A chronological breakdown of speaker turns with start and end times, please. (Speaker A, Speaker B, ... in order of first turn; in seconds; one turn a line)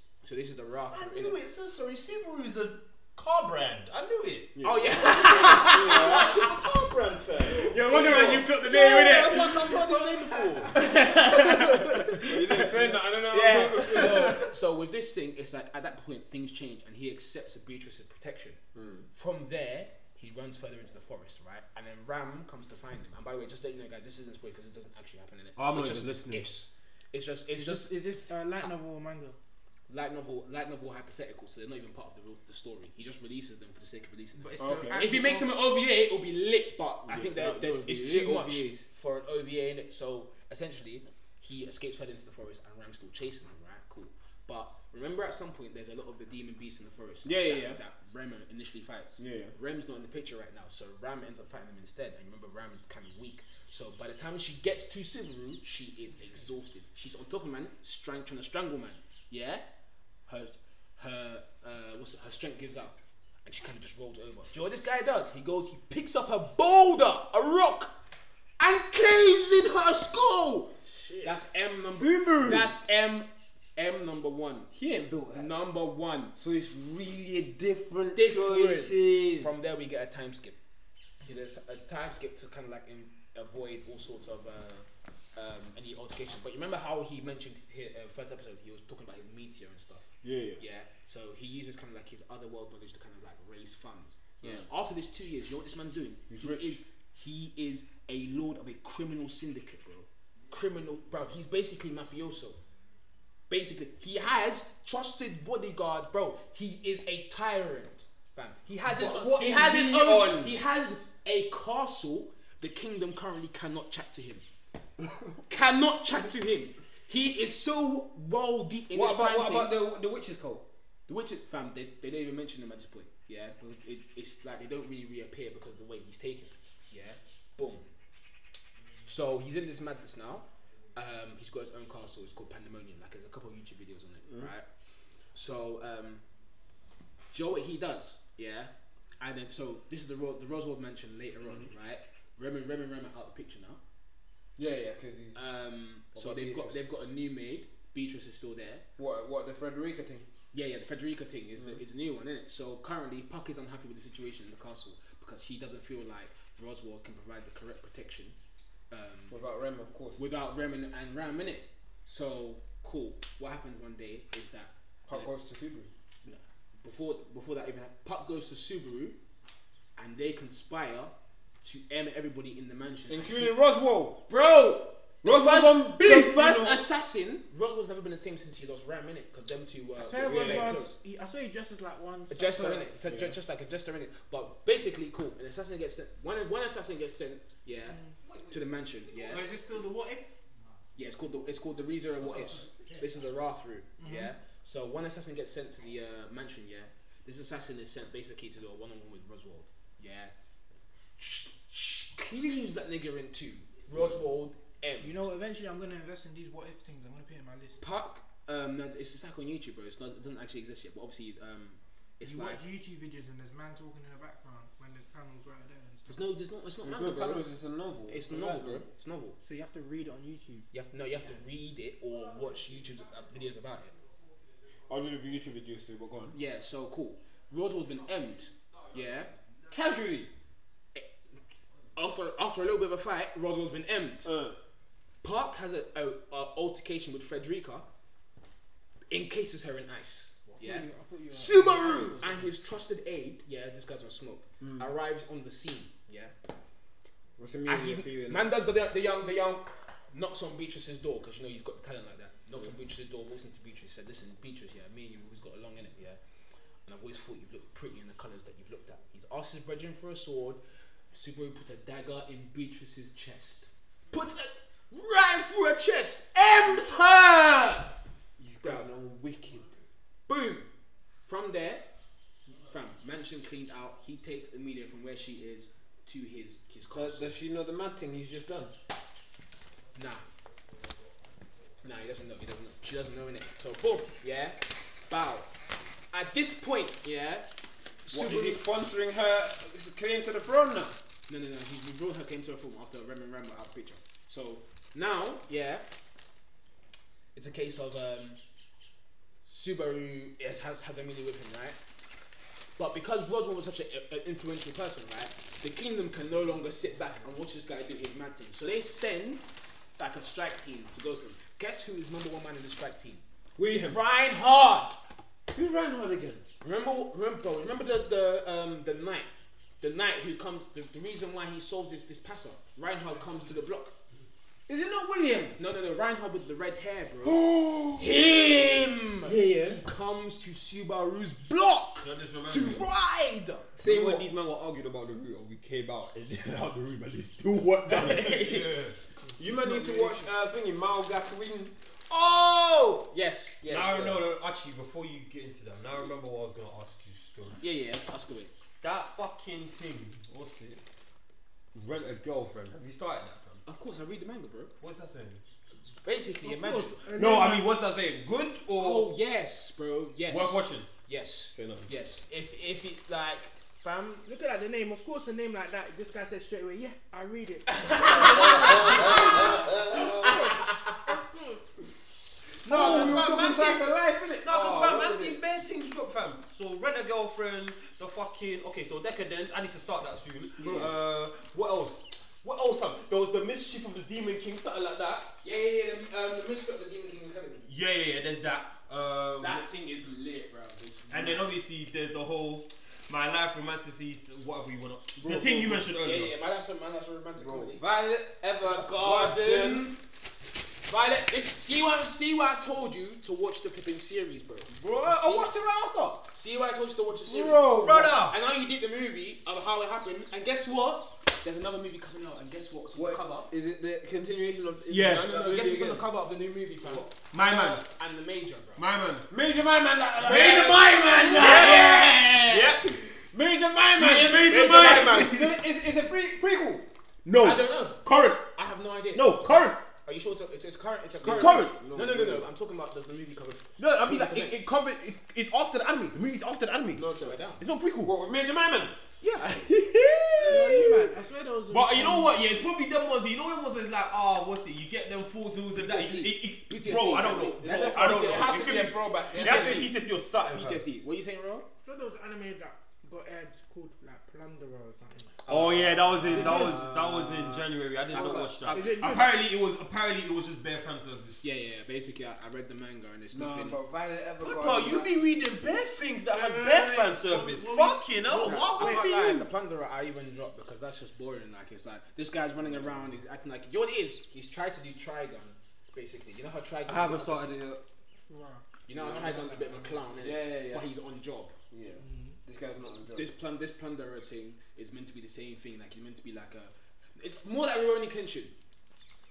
Speaker A: 0.2-1.4
Speaker B: 0.9-4.5
Speaker C: 4.5-6.5
Speaker A: 4.6-6.5
Speaker B: 5.4-10.7
Speaker A: 7.6-9.6
Speaker D: 7.7-9.9
Speaker E: 9.6-10.5
Speaker A: 10.7-18.6
Speaker C: 12.2-14.5
Speaker C: 18.8-19.1
Speaker A: 19.1-27.9
Speaker E: 25.6-26.5
Speaker D: 27.5-29.4
Speaker A: 29.9-59.6
Speaker D: 34.4-35.5
Speaker C: 34.6-35.1
Speaker C: 37.1-38.8
Speaker C: 47.2-47.8
Speaker C: 49.2-49.5
Speaker A: 60.3-67.9
Speaker A: 68.6-70.7
Speaker A: 71.2-74.7
Speaker C: 71.9-72.7
Speaker C: 74.7-75.5
Speaker A: 75.3-76.3
Speaker C: 76.3-79.5
Speaker A: 78.2-80.6
Speaker A: 81.2-102.6
Speaker C: 90.2-90.6
Speaker C: 96.3-96.8
Speaker A: 103.5-114.4
Speaker C: 108.9-110.5
Speaker A: 115.5-119.7
Speaker C: 118.9-120.7
Speaker A: 121.1-127.9
Speaker A: 129.1-134.7
Speaker A: 135.3-136.2
Speaker A: 137.3-143.8
Speaker C: 144.6-145.4
Speaker A: 145.3-148.8
Speaker C: 146.1-146.8
Speaker C: 149.0-150.3
Speaker A: 150.5-158.4
Speaker A: 158.9-159.3
Speaker C: 159.3-160.2
Speaker A: 160.2-165.3
Speaker C: 165.1-165.9
Speaker A: 166.2-169.2
Speaker A: 170.0-173.6
Speaker C: 173.1-174.2
Speaker A: 174.3-181.0
Speaker C: 175.2-176.8
Speaker D: 180.0-182.9
Speaker C: 180.2-180.8
Speaker A: 182.3-189.5
Speaker C: 183.1-183.4
Speaker D: 189.2-190.3
Speaker A: 191.0-200.3
Speaker D: 194.0-194.3
Speaker A: 201.2-205.2
Speaker D: 205.0-207.8
Speaker A: 207.8-212.6
Speaker D: 212.2-216.1
Speaker A: 216.1-217.5
Speaker C: 216.8-218.9
Speaker A: 218.1-219.4
Speaker D: 219.4-220.7
Speaker A: 220.7-223.9
Speaker C: 224.9-226.4
Speaker A: 226.3-229.3
Speaker C: 229.7-230.3
Speaker A: 232.0-234.3
Speaker C: 234.2-234.6
Speaker A: 235.2-237.9
Speaker A: 239.1-246.3
Speaker D: 240.6-242.5
Speaker C: 244.6-244.9
Speaker C: 247.4-248.5
Speaker A: 247.7-256.2
Speaker A: 256.9-260.6
Speaker A: 261.1-267.9
Speaker C: 268.4-269.7
Speaker A: 270.3-270.7
Speaker A: 271.2-271.9
Speaker A: 272.7-277.4
Speaker C: 276.9-278.7
Speaker A: 279.9-280.2
Speaker A: 281.8-285.5
Speaker A: 286.1-287.5
Speaker A: 288.1-288.6
Speaker C: 288.1-291.0
Speaker A: 291.3-295.9
Speaker A: 297.4-298.4
Speaker A: 299.4-301.8
Speaker A: 302.8-309.4
Speaker A: 310.0-313.2
Speaker C: 313.6-314.0
Speaker A: 313.9-315.0
Speaker C: 315.5-316.4
Speaker A: 316.6-319.3
Speaker A: 319.8-323.9
Speaker C: 324.7-325.6
Speaker A: 325.6-333.7
Speaker C: 327.6-327.9
Speaker C: 329.2-329.8
Speaker E: 332.0-332.9
Speaker C: 333.8-334.3
Speaker E: 333.8-339.0
Speaker A: 337.9-338.8
Speaker C: 339.4-341.7
Speaker A: 339.4-340.3
Speaker A: 342.1-344.0
Speaker C: 343.6-344.2
Speaker E: 343.7-347.6
Speaker A: 347.6-348.5
Speaker E: 348.8-350.8
Speaker E: 351.7-353.6
Speaker A: 353.7-354.7
Speaker E: 354.8-355.4
Speaker A: 356.0-357.1
Speaker D: 356.4-357.6
Speaker E: 357.1-359.1
Speaker A: 358.8-363.8
Speaker E: 360.3-360.9
Speaker E: 361.5-361.9
Speaker D: 363.7-371.6
Speaker A: 367.7-371.1
Speaker B: 368.1-370.4
Speaker E: 372.6-385.3
Speaker C: 372.6-375.4
Speaker A: 372.7-373.3
Speaker C: 380.6-380.9
Speaker A: 380.6-380.9
Speaker A: 385.4-387.7
Speaker E: 387.6-389.7
Speaker A: 389.4-391.5
Speaker E: 391.1-396.3
Speaker C: 395.2-395.9
Speaker A: 396.0-397.8
Speaker C: 397.4-399.9
Speaker A: 398.6-400.0
Speaker A: 400.9-405.5
Speaker C: 404.7-406.2
Speaker A: 406.2-413.5
Speaker C: 407.2-408.2
Speaker E: 407.8-408.4
Speaker C: 412.9-416.0
Speaker E: 414.9-415.3
Speaker A: 415.0-418.8
Speaker E: 417.3-417.8
Speaker E: 418.8-419.3
Speaker C: 419.3-422.2
Speaker A: 420.2-422.8
Speaker E: 420.3-420.7
Speaker E: 421.3-422.9
Speaker C: 423.1-426.9
Speaker A: 424.0-425.4
Speaker E: 424.0-425.6
Speaker E: 427.2-428.5
Speaker A: 427.4-428.0
Speaker A: 428.6-434.7
Speaker E: 429.1-429.8
Speaker C: 431.2-432.5
Speaker E: 431.3-431.8
Speaker E: 433.8-437.1
Speaker C: 437.0-437.4
Speaker A: 437.0-437.6
Speaker E: 437.6-438.1
Speaker C: 438.0-438.9
Speaker A: 439.2-441.1
Speaker E: 440.4-440.9
Speaker D: 440.5-442.4
Speaker E: 441.7-450.9
Speaker A: 445.7-451.7
Speaker C: 447.4-448.7
Speaker D: 449.3-449.8
Speaker C: 449.4-449.9
Speaker D: 451.8-455.3
Speaker A: 455.5-456.9
Speaker E: 455.5-461.5
Speaker C: 456.2-458.8
Speaker A: 458.1-459.1
Speaker D: 458.7-459.3
Speaker A: 461.4-463.8
Speaker C: 463.3-465.1
Speaker E: 464.4-469.4
Speaker D: 466.3-469.0
Speaker A: 468.4-477.5
Speaker C: 472.7-472.9
Speaker E: 476.9-477.3
Speaker C: 476.9-477.8
Speaker D: 478.3-480.1
Speaker A: 478.9-481.5
Speaker C: 478.9-479.5
Speaker C: 480.2-480.9
Speaker C: 481.7-483.3
Speaker D: 482.0-482.4
Speaker A: 483.1-488.5